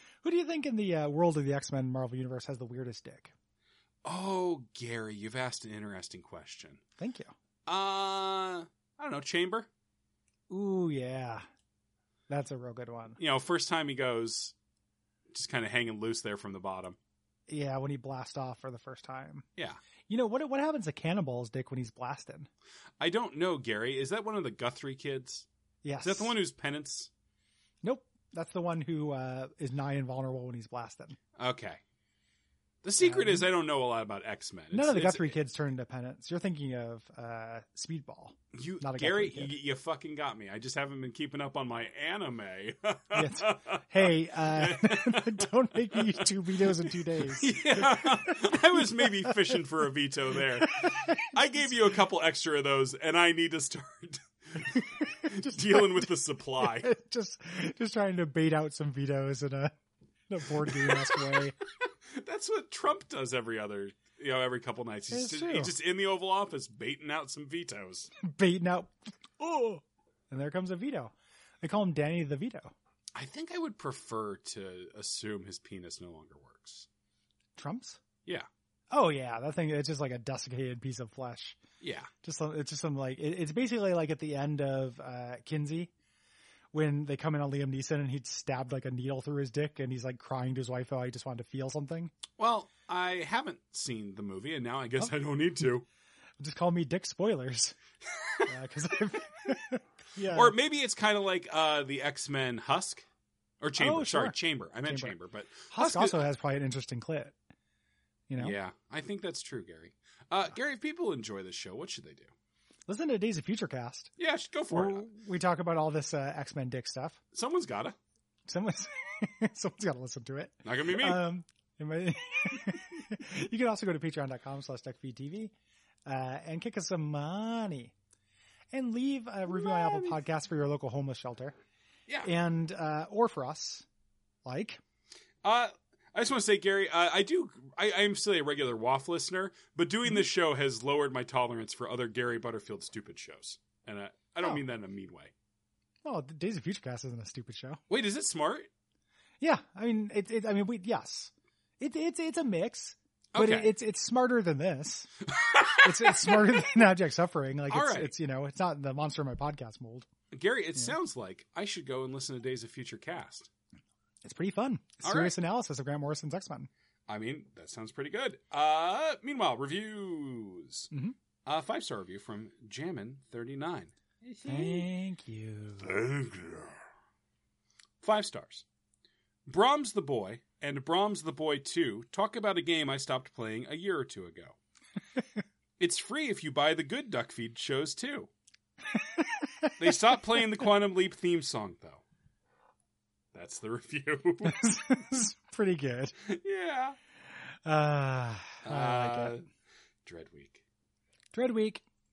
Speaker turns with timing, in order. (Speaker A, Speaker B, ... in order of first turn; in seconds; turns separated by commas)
Speaker A: 0.2-3.3, Speaker B: 4.0-6.8, Speaker A: 7.0-7.3, Speaker B: 7.7-9.7, Speaker A: 10.5-11.4, Speaker A: 12.3-13.2, Speaker B: 13.2-14.5, Speaker B: 15.3-17.0, Speaker A: 17.5-19.4, Speaker A: 20.1-22.5, Speaker B: 23.0-25.5, Speaker A: 25.8-26.3, Speaker B: 26.0-27.1, Speaker A: 27.8-31.2, Speaker B: 31.4-31.8, Speaker B: 32.8-35.4, Speaker A: 33.0-33.5, Speaker A: 34.7-39.5, Speaker B: 38.5-56.9, Speaker A: 43.1-49.4, Speaker A: 50.7-51.3, Speaker A: 55.0-59.7, Speaker A: 60.3-61.5, Speaker B: 60.6-61.2, Speaker B: 62.1-68.1, Speaker A: 65.1-65.7, Speaker A: 68.2-72.7, Speaker B: 73.2-76.9, Speaker A: 77.6-78.0, Speaker A: 78.9-81.6, Speaker B: 81.8-82.1, Speaker A: 82.2-85.9, Speaker A: 86.7-92.1, Speaker B: 92.4-95.8, Speaker A: 96.4-97.7, Speaker A: 98.5-100.5, Speaker B: 100.3-103.0, Speaker B: 103.6-106.3, Speaker A: 103.8-105.1, Speaker A: 105.7-107.3, Speaker A: 108.3-108.5, Speaker B: 108.4-112.3, Speaker A: 112.9-114.1, Speaker B: 114.2-115.0, Speaker A: 114.7-117.2, Speaker B: 117.3-118.0, Speaker A: 118.5-125.5, Speaker B: 120.6-121.2, Speaker A: 126.0-127.9, Speaker A: 128.7-131.5, Speaker B: 129.5-130.2, Speaker A: 132.2-133.8, Speaker A: 134.4-134.8, Speaker B: 135.4-145.3, Speaker A: 146.0-147.8, Speaker B: 147.9-148.7, Speaker A: 149.4-155.2, Speaker B: 153.3-153.7, Speaker B: 155.3-156.8, Speaker A: 155.8-160.1, Speaker B: 157.7-158.1, Speaker B: 160.3-163.5, Speaker A: 164.2-166.7, Speaker B: 165.0-165.3, Speaker B: 167.1-170.9, Speaker B: 171.4-174.9, Speaker A: 174.4-175.9, Speaker B: 175.8-176.8, Speaker B: 178.0-178.6, Speaker B: 179.5-184.5, Speaker B: 185.8-188.3, Speaker A: 189.2-189.7, Speaker B: 189.8-192.0, Speaker B: 193.3-194.7, Speaker A: 194.4-196.2, Speaker B: 196.2-197.0, Speaker A: 197.7-199.4, Speaker B: 198.6-199.4, Speaker B: 200.0-200.6, Speaker A: 201.3-201.8